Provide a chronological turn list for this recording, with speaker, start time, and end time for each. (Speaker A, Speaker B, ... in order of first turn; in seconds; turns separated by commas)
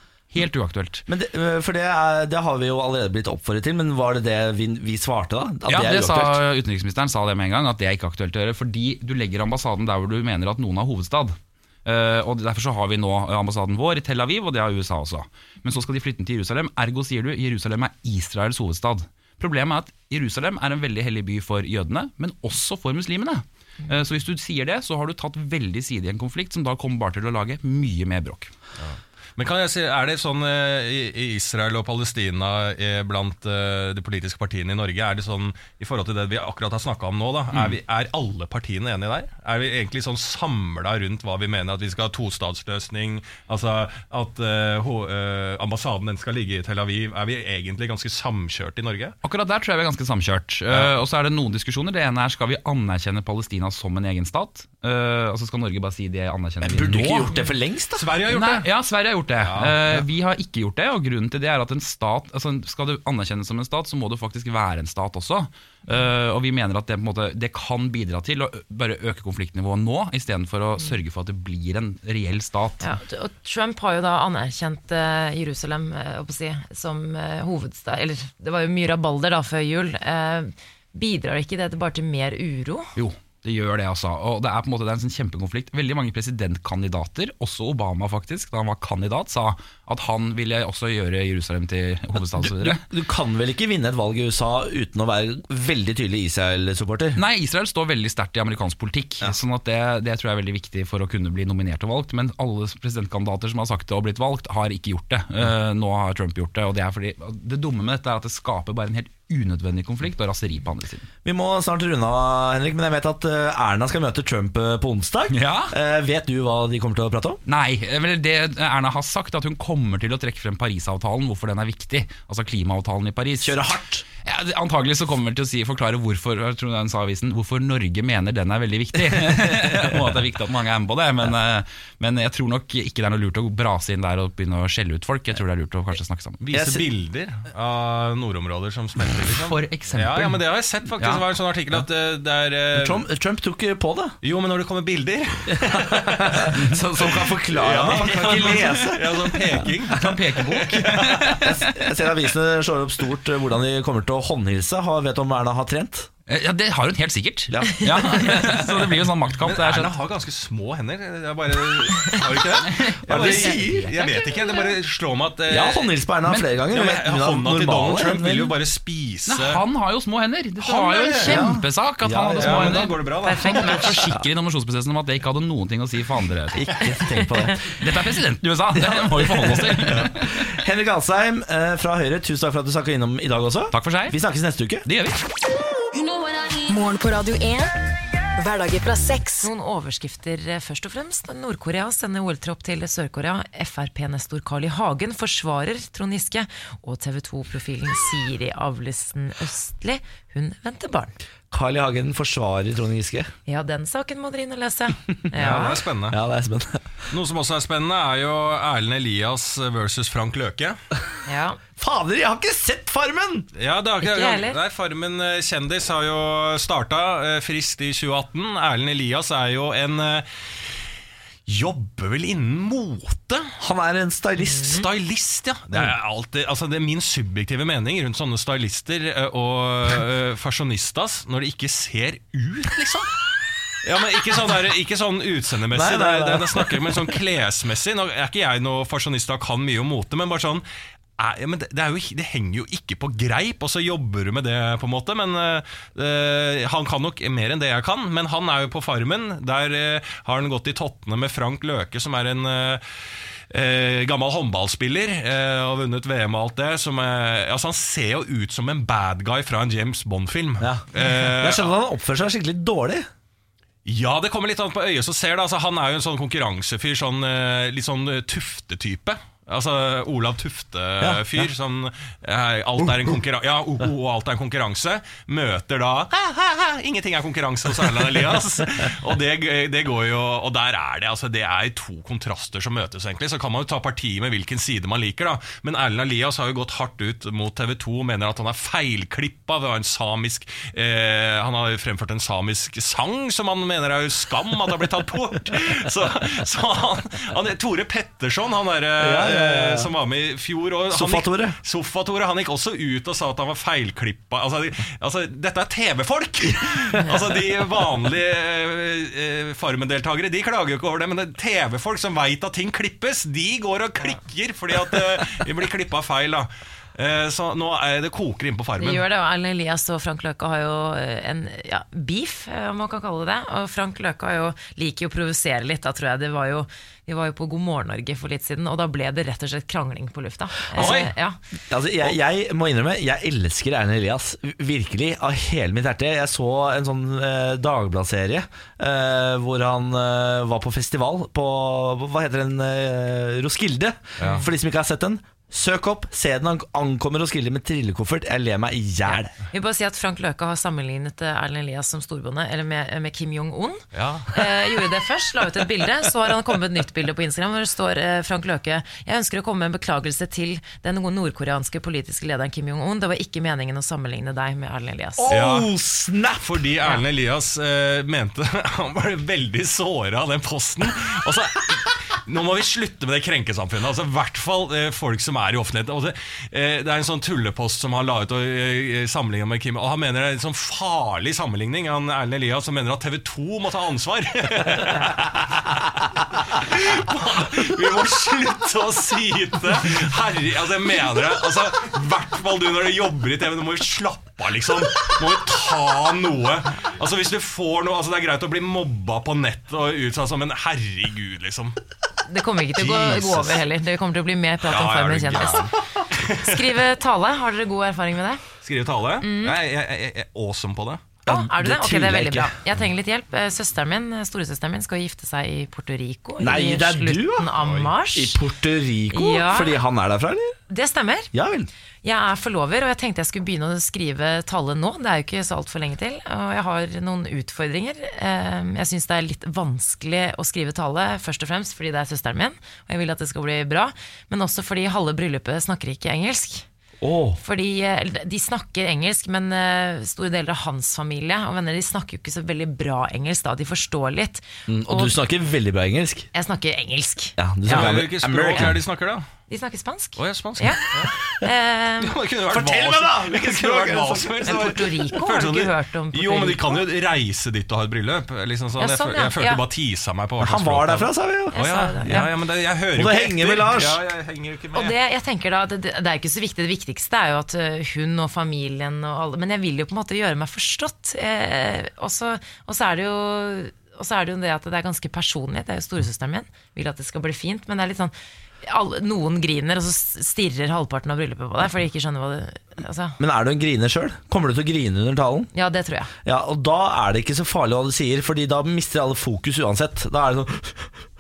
Speaker A: 0.3-1.1, Speaker B: 1.1-6.4, Speaker A: 5.7-28.5, Speaker C: 28.8-49.1, Speaker A: 49.2-57.3, Speaker B: 56.6-58.1, Speaker C: 58.0-58.7, Speaker A: 58.3-72.9, Speaker C: 59.4-60.0, Speaker D: 72.8-82.9, Speaker A: 83.0-92.8, Speaker B: 92.3-97.2, Speaker A: 97.2-111.1, Speaker B: 111.2-117.4, Speaker A: 115.3-115.7, Speaker A: 117.5-123.6, Speaker B: 123.4-124.0, Speaker A: 124.2-136.5, Speaker C: 136.4-143.1, Speaker B: 136.5-136.8, Speaker A: 139.3-140.4, Speaker A: 141.0-141.8, Speaker B: 142.7-144.2, Speaker C: 144.2-146.5, Speaker B: 145.5-149.1, Speaker A: 146.5-147.3, Speaker C: 147.5-151.4, Speaker A: 147.9-149.2, Speaker A: 149.9-151.7, Speaker B: 151.4-156.1, Speaker A: 156.3-159.9, Speaker B: 157.5-158.6, Speaker C: 159.4-165.9, Speaker A: 162.6-164.3, Speaker B: 163.1-163.8, Speaker D: 164.3-164.6, Speaker B: 165.5-168.5, Speaker C: 166.7-169.6, Speaker A: 169.3-176.8, Speaker C: 170.6-171.4, Speaker B: 171.2-172.9, Speaker C: 172.4-174.0, Speaker D: 173.2-173.9, Speaker B: 176.5-177.6, Speaker A: 177.6-180.2, Speaker B: 178.9-184.9, Speaker A: 183.7-184.2, Speaker A: 184.8-185.2, Speaker E: 185.9-189.5, Speaker D: 189.4-201.2, Speaker B: 201.5-203.3, Speaker D: 203.5-205.8, Speaker C: 205.4-206.2, Speaker B: 205.4-206.9, Speaker C: 207.1-210.8, Speaker D: 211.3-211.6, Speaker B: 211.8-213.5, Speaker C: 213.6-220.3, Speaker D: 214.0-214.6, Speaker C: 221.5-223.5, Speaker B: 223.6-224.8, Speaker D: 224.5-224.8, Speaker C: 224.6-233.1, Speaker C: 233.8-240.6, Speaker B: 235.7-236.7, Speaker C: 241.2-252.8, Speaker C: 253.5-261.7, Speaker B: 260.6-263.1, Speaker C: 263.9-319.0, Speaker B: 299.0-299.9, Speaker B: 300.9-301.6, Speaker D: 318.8-331.4, Speaker B: 330.7-331.1, Speaker C: 330.7-331.1, Speaker B: 331.7-349.3, Speaker C: 344.2-344.4, Speaker D: 344.2-344.5, Speaker D: 349.5-365.4, Speaker C: 353.9-354.4, Speaker B: 365.2-366.6, Speaker C: 365.3-365.7, Speaker C: 366.4-401.8, Speaker D: 402.3-405.8, Speaker C: 402.8-403.6, Speaker C: 404.7-406.7, Speaker D: 406.3-408.4, Speaker C: 408.6-411.1, Speaker D: 409.2-409.6, Speaker B: 411.3-412.5, Speaker D: 411.3-418.4, Speaker B: 416.4-417.5, Speaker C: 417.5-417.9, Speaker B: 418.1-420.6, Speaker D: 419.1-419.8, Speaker D: 420.7-421.3, Speaker B: 421.3-421.7, Speaker D: 422.0-436.7, Speaker B: 437.0-437.4, Speaker D: 437.4-445.1, Speaker B: 444.7-446.3, Speaker D: 446.3-447.8, Speaker B: 447.4-448.8, Speaker C: 447.7-449.3, Speaker D: 449.5-452.2, Speaker C: 450.2-451.1, Speaker C: 452.0-464.9, Speaker B: 452.5-454.8, Speaker D: 454.5-456.8, Speaker D: 458.8-459.6, Speaker B: 460.4-462.3, Speaker D: 461.5-462.3, Speaker B: 462.9-464.0, Speaker D: 464.7-483.2, Speaker B: 483.2-485.5, Speaker D: 485.5-486.1, Speaker B: 486.2-490.9